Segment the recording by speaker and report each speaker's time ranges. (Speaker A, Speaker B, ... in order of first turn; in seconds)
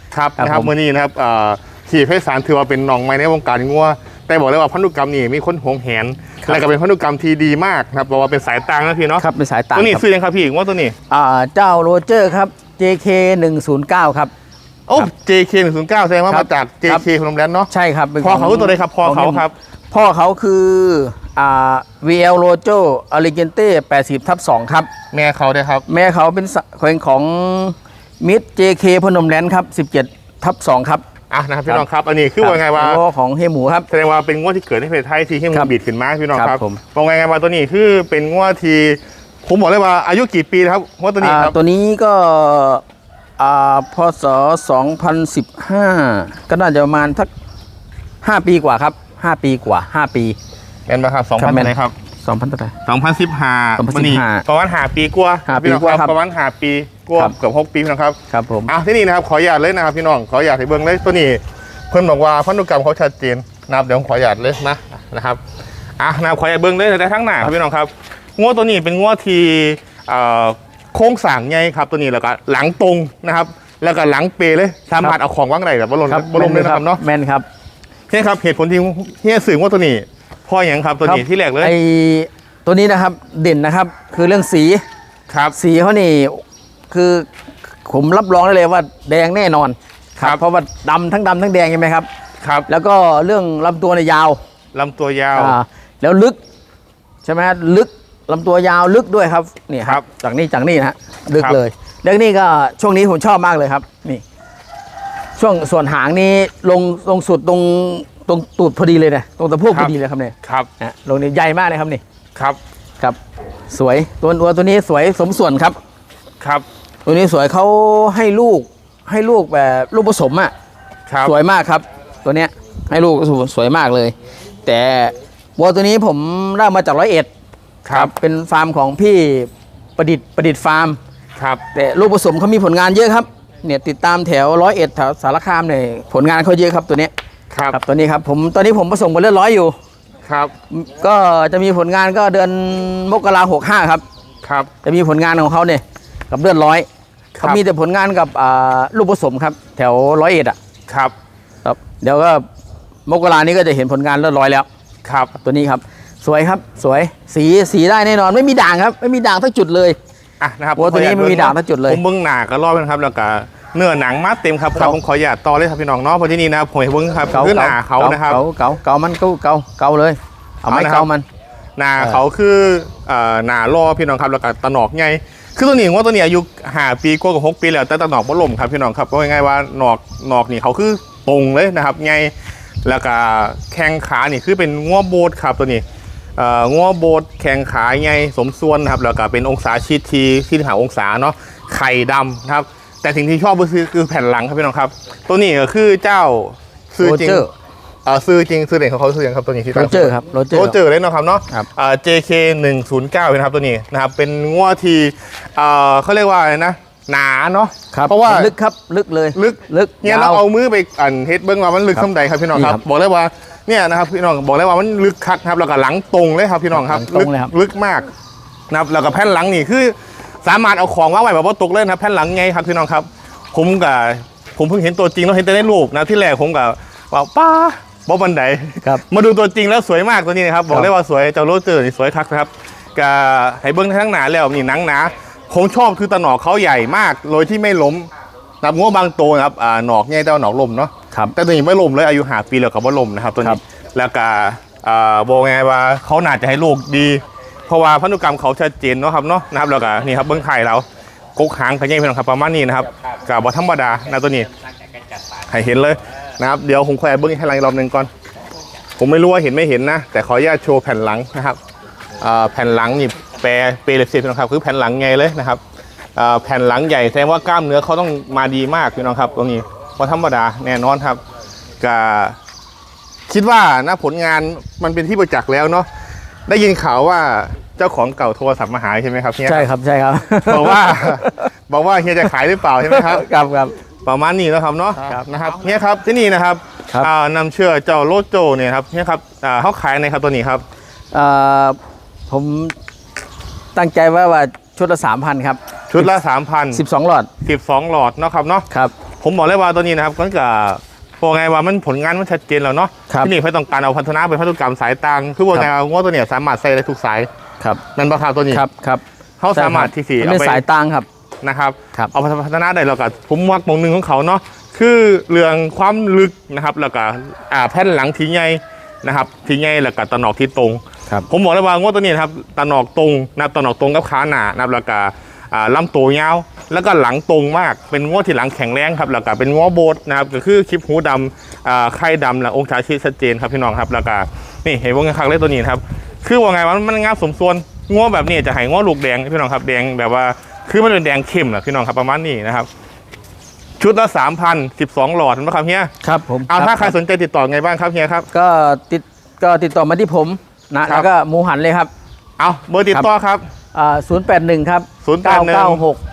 Speaker A: 0.1-11.0, 14.9-17.7, 18.2-19.5, 25.1-25.9, 31.3-33.0, 33.9-41.5, 50.9-52.0, 52.9-65.4, 66.0-77.0, 78.1-81.7, 85.3-85.6, 92.4-92.7, 94.7-95.6, 101.3-101.6, 110.4-110.7, 116.4-116.7, 121.1-121.3, 127.8-128.1, 131.4-131.6, 137.5-137.8, 140.2-140.5, 144.4-144.7, 147.4-147.6, 150.9-151.1, 155.1-155.3, 160.4-168.4, 170.7-171.1, 171.8-182.3, 182.8-185.8, 186.4-197.5, 198.1-208.5, 209.3-218.1, 218.7-238.1, 238.6-254.5, 255.3-258.1, 259.0-261.6, 262.2-265.6, 266.2-271.2, 271.8-272.4, 273.3-275.9, 276.5-279.7, 280.4-283.3, 284.1-290.6, 295.9-296.8, 297.4-298.7, 299.2-307.3, 307.9-308.6, 309.4-310.6, 311.4-342.7, 343.8-345.9, 346.5-348.3, 352.4-353.5, 355.0-355.8
Speaker B: 0.4-0.7, 9.2-10.0, 11.1-14.3, 16.3-17.1, 17.7-24.9, 25.9-31.1, 32.4-33.9, 36.3-36.8, 41.2-42.8, 43.4-47.3, 48.2-50.4, 51.4-52.8, 53.8-54.5, 55.5-56.1, 58.3-58.7, 76.1-77.5, 81.0-84.8, 85.5-87.3, 87.8-92.1, 92.7-94.4, 95.3-96.4, 97.2-104.2, 105.4-112.0, 113.7-115.8, 117.1-120.5, 121.2-127.3, 127.9-131.0, 131.7-137.1, 137.7-139.8, 140.7-144.0, 144.8-146.9, 147.4-150.6, 151.6-152.4, 153.1-154.7, 155.4-160.0, 160.8-162.0, 167.3-171.2, 197.0-197.5, 199.7-200.8, 207.9-210.4, 211.9-212.8, 216.7-217.5, 279.4-281.5, 282.8-283.8, 285.0-285.2, 291.1-291.8, 292.3-292.8, 293.8-296.1, 296.7-297.3, 308.5-309.0, 309.5-311.1, 346.0-346.9, 348.3-351.9, 353.7-356.0